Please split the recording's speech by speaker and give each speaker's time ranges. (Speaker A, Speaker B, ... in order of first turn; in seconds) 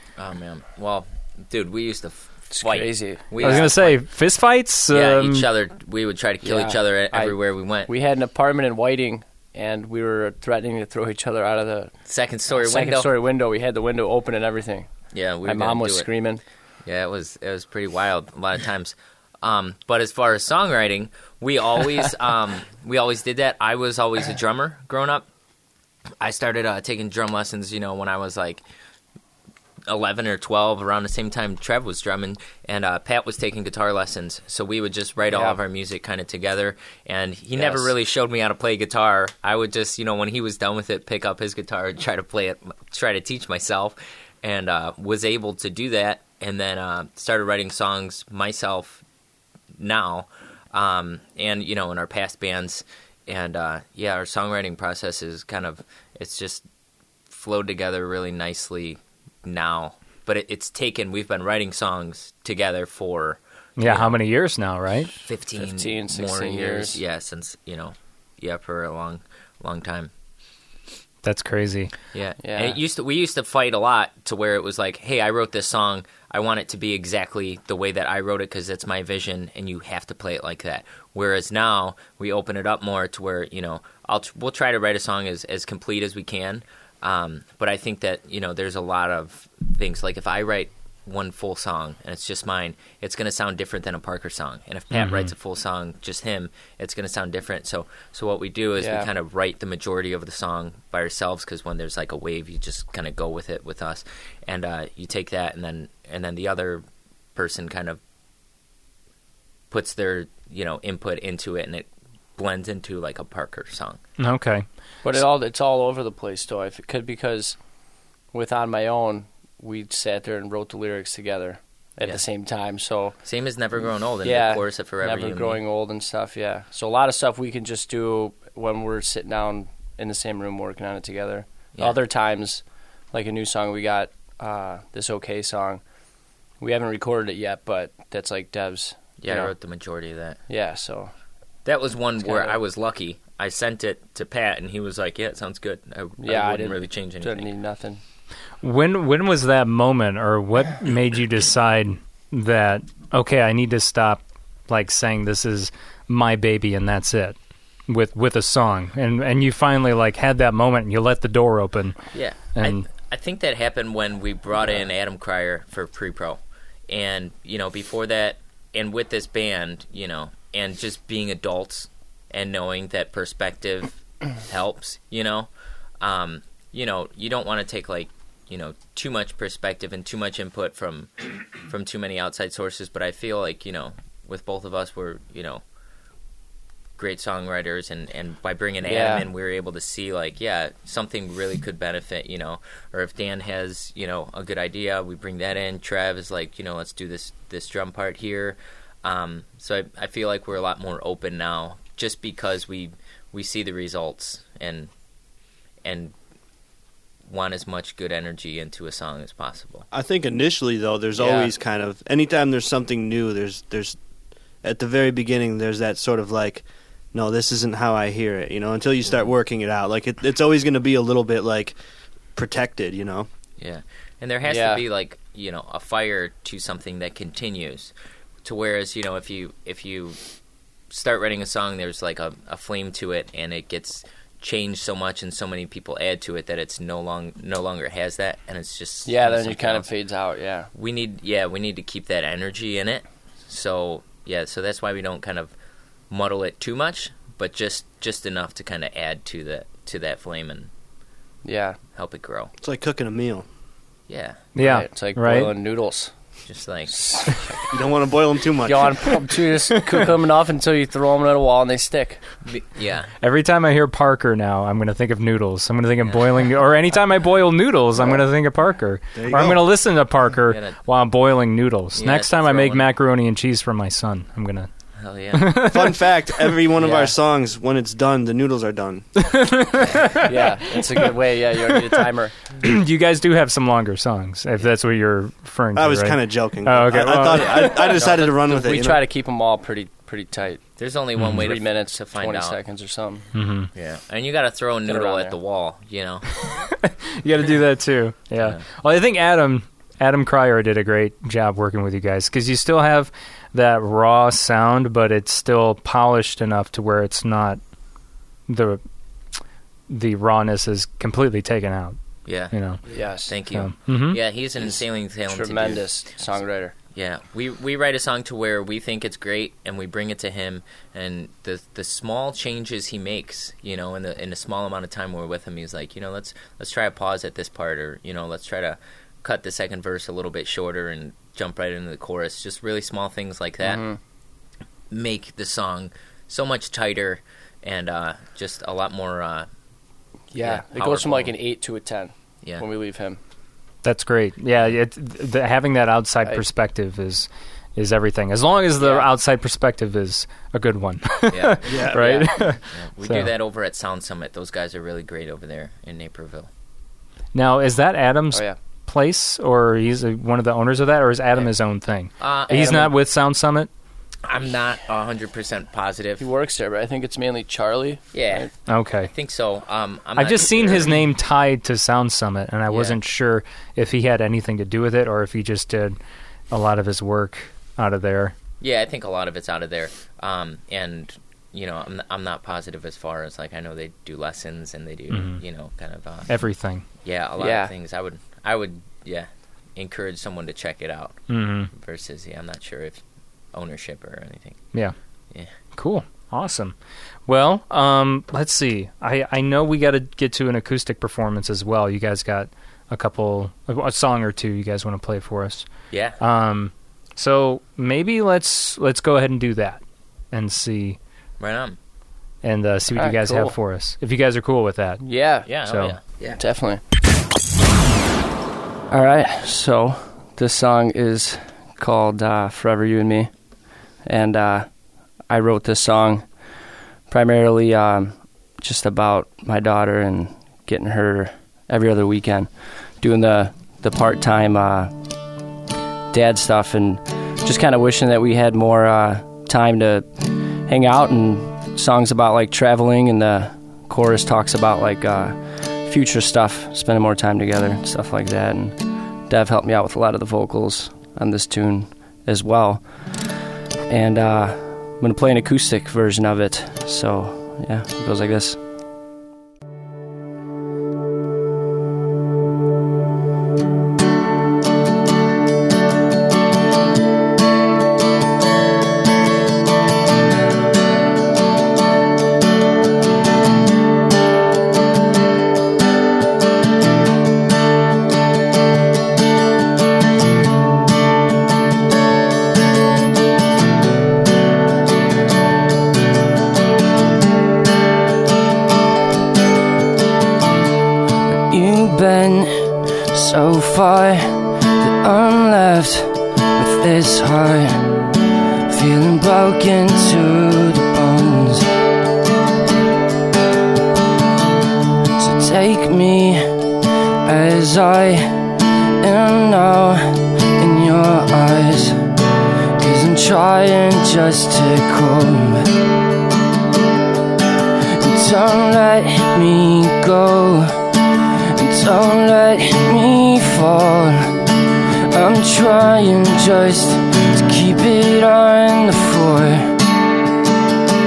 Speaker A: 0.2-4.1, 4.9-7.9, 12.1-13.1, 15.1-16.1, 16.8-25.2, 26.2-28.6, 29.9-49.0, 49.8-56.6, 57.3-64.2, 65.2-70.1, 72.1-106.8, 107.3-108.0, 109.7-114.0, 122.0-122.2, 123.2-125.6, 139.2-140.4, 141.6-147.5, 162.1-175.5, 176.0-185.6, 187.0-204.9, 205.8-206.1, 207.3-209.9, 211.2-211.5, 223.6-227.9, 228.4-230.2, 230.9-239.9, 240.7-245.5, 246.1-250.7, 251.9-252.5, 254.1-254.4, 256.4-257.4, 262.4-263.1, 270.5-270.8, 271.9-272.9, 275.0-275.6, 288.0-288.3, 290.8-292.6, 293.7-296.3, 312.2-312.6, 313.2-316.4, 316.9-333.8, 334.9-339.5, 340.3-341.4, 351.3-356.5, 362.2-362.9, 364.2-366.2, 368.1-370.9, 372.7-373.0, 378.6-386.4, 387.0-394.7, 405.9-406.2, 411.4-411.8, 415.4-416.0
Speaker B: 2.5-3.7, 6.4-11.9, 12.5-16.4, 35.3-35.6, 37.6-37.9, 65.5-67.0, 72.4-72.8, 98.8-99.1, 115.0-117.7, 118.3-123.2, 124.2-135.8, 136.5-139.5, 140.5-141.1, 142.2-142.6, 146.2-148.0, 188.8-189.3, 224.4-224.8, 239.0-240.7, 251.4-251.8, 254.6-257.6, 258.6-262.2, 276.8-277.1, 280.2-282.4, 288.0-290.7, 291.4-293.3, 294.8-295.3, 312.9-313.4, 314.6-316.7, 333.6-334.0, 340.3-343.2, 358.3-358.6, 362.5-362.9, 366.2-368.5, 387.4-387.7, 412.9-413.6, 415.0-415.5, 416.2-416.8, 418.9-435.0, 436.1-453.3, 453.9-458.6
Speaker C: 3.4-5.5, 63.8-65.1, 71.2-71.9, 94.9-95.3, 114.2-114.7, 148.6-162.8, 254.5-255.5, 263.2-274.7, 275.3-276.5, 279.3-280.3, 282.6-287.9, 293.3-293.7, 296.5-307.6, 308.5-308.8, 309.9-312.8, 313.3-314.2, 343.8-353.3, 357.3-363.7, 368.7-369.1, 370.1-376.0, 376.5-378.3, 385.1-385.4, 386.3-386.9, 391.3-391.7, 395.7-396.7, 397.2-411.0, 412.4-415.9
Speaker D: 209.9-214.0, 214.6-221.8, 222.3-223.3, 252.6-253.4, 257.7-259.4, 269.1-269.6, 275.7-279.1, 285.7-289.1, 351.7-352.3
Speaker E: 491.5-497.9, 498.7-501.7, 505.2-506.6, 507.2-508.5, 509.0-512.0, 512.8-515.7, 518.0-520.8, 521.5-524.3, 525.1-529.7